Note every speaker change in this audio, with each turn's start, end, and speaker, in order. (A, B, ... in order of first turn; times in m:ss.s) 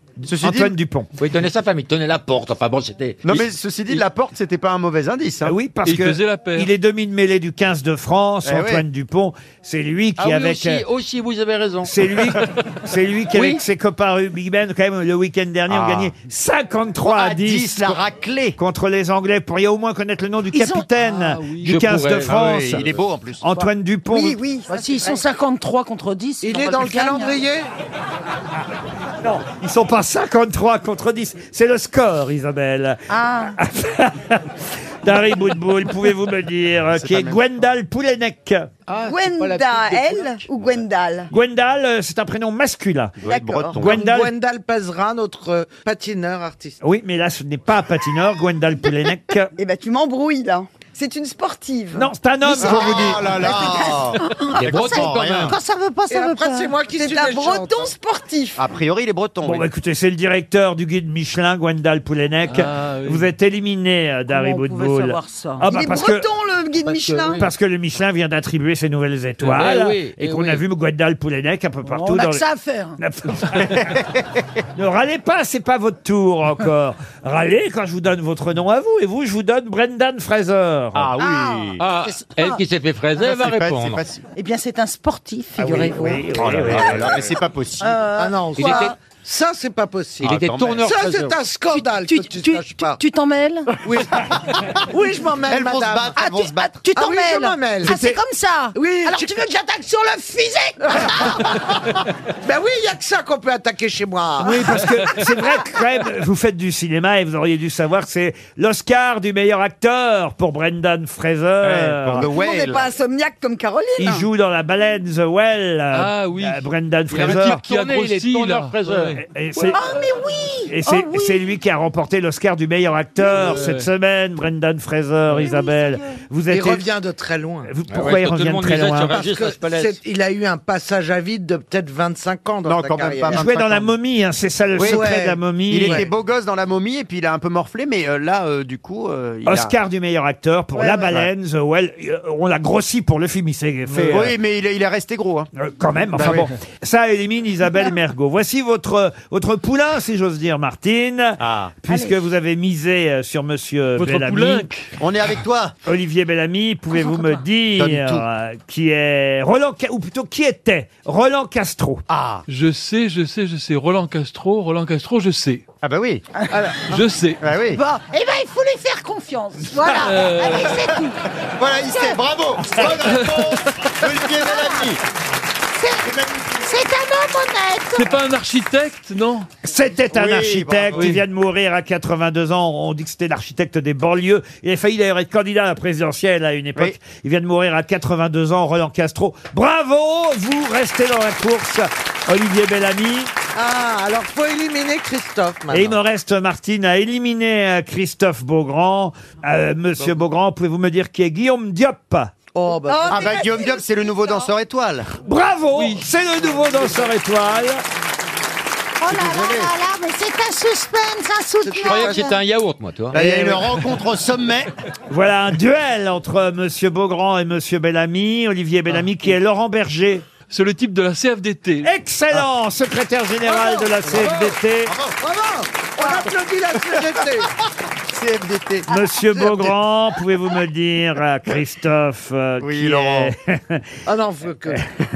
0:00.2-0:01.1 A
0:00.2-0:00.8 B
0:01.2-0:04.0 C
0:03.2-0:05.5 B
0:05.4-0:10.8 A
0:05.8-0:06.7 D
0:08.4-0:08.8 B
0:10.2-0:12.3 C
0:11.8-0:18.0 A
0:15.7-0:16.1 B
0:17.0-0:18.6 B
0:18.6-0:22.8 A
0:20.5-0:21.3 E
0:21.3-0:21.8 D
0:21.6-0:23.2 C
0:22.3-0:23.5 B
0:23.4-0:24.4 A
0:24.1-0:25.1 F
0:24.7-0:27.4 E
0:26.4-0:27.7 G
0:29.2-0:33.0 A
0:33.1-0:33.6 E
0:33.6-0:38.7 A
0:36.9-0:37.4 B
0:38.9-0:40.8 C
0:39.0-0:41.3 F
0:41.3-0:43.2 A
0:43.2-0:44.0 B
0:43.2-0:43.9 F
0:43.7-0:44.3 A
0:43.8-0:46.8 G
0:46.8-0:49.5 A
0:49.6-0:54.7 F
0:51.9-0:53.3 A
0:52.5-0:53.9 E
0:52.6-0:54.2 B
0:54.5-0:55.6 C
0:54.7-0:56.8 E
0:54.7-0:55.6 B
0:56.1-0:57.9 G
0:56.9-0:58.6 F
0:58.6-0:59.7 B
0:59.4-1:06.3 A
1:02.4-1:03.3 D
1:04.3-1:05.7 E
1:05.7-1:07.5 F
1:06.8-1:07.5 C
1:07.4-1:12.4 A
1:09.4-1:10.6 C
1:11.8-1:13.0 E
1:13.0-1:14.0 A
1:13.8-1:14.0 B
1:14.8-1:21.1 A
1:20.9-1:21.8 B
1:21.2-1:22.6 E
1:21.8-1:24.0 C
1:23.2-1:24.2 B
1:24.3-1:26.3 E
1:25.6-1:27.3 A
1:26.3-1:28.0 B
1:27.8-1:28.9 E
1:28.2-1:30.3 G
1:28.6-1:28.9 C
1:30.2-1:31.4 C
1:30.2-1:30.9 B
1:30.8-1:33.0 G
1:31.7-1:33.7 E
1:33.8-1:34.3 G
1:34.9-1:36.3 G
1:35.5-1:36.8 B
1:36.1-1:41.5 E
1:36.9-1:38.0 G
1:38.7-1:39.3 G
1:40.8-1:41.7 G
1:42.4-1:44.8 G
1:44.4-1:52.3 A
1:44.8-1:45.3 D
1:51.6-1:52.9 B
1:52.2-1:54.3 F
1:54.0-1:57.6 A
1:55.9-1:59.2 D
1:57.1-1:59.2 C
1:59.2-1:59.8 A
1:59.6-2:01.5 E
2:00.7-2:06.9 A
2:03.2-2:03.9 D
2:05.4-2:06.2 E
2:06.4-2:07.7 G
2:07.6-2:09.2 A
2:07.8-2:10.0 C
2:09.1-2:13.5 G
2:12.6-2:13.9 B
2:13.3-2:16.1 A
2:14.7-2:15.1 B
2:14.8-2:16.0 G
2:15.7-2:19.8 B
2:19.4-2:24.3 A
2:20.8-2:21.1 F
2:23.9-2:24.2 D
2:24.0-2:25.5 B
2:25.5-2:34.7 A
2:26.1-2:26.5 B
2:31.4-2:31.7 B
2:31.9-2:32.2 E
2:33.9-2:34.9 D
2:35.0-2:35.8 B
2:35.8-2:42.0 A
2:36.9-2:37.4 E
2:37.8-2:38.2 B
2:42.1-2:42.4 B
2:42.5-2:45.6 D
2:45.8-2:46.2 B
2:46.4-2:46.7 E
2:46.8-2:47.4 D
2:47.4-2:47.8 B
2:47.7-2:51.2 E
2:50.0-2:50.7 D
2:51.6-2:55.0 B
2:51.8-2:52.2 E
2:52.8-2:53.7 D
2:54.1-2:54.9 E
2:55.7-2:58.2 E
2:56.0-2:56.7 B
2:58.0-2:59.5 D
2:59.6-3:13.3 A
3:00.1-3:01.2 B
3:00.9-3:01.2 D
3:13.5-3:16.0 G
3:15.7-3:22.3 A
3:22.5-3:23.2 G
3:22.9-3:24.1 F
3:23.1-3:25.1 B
3:25.2-3:27.8 A
3:25.7-3:26.1 D
3:29.0-3:32.4 E
3:29.0-3:29.7 B
3:31.8-3:33.4 C
3:33.1-3:34.7 B
3:35.1-3:40.3 A
3:40.5-3:42.4 D
3:41.8-3:45.0 A
3:43.4-3:44.5 G
3:44.1-3:44.3 B
3:44.8-3:45.2 B
3:45.2-3:47.5 G
3:48.1-3:49.8 B
3:48.9-3:53.9 A
3:52.6-3:53.3 B
3:54.0-3:54.9 G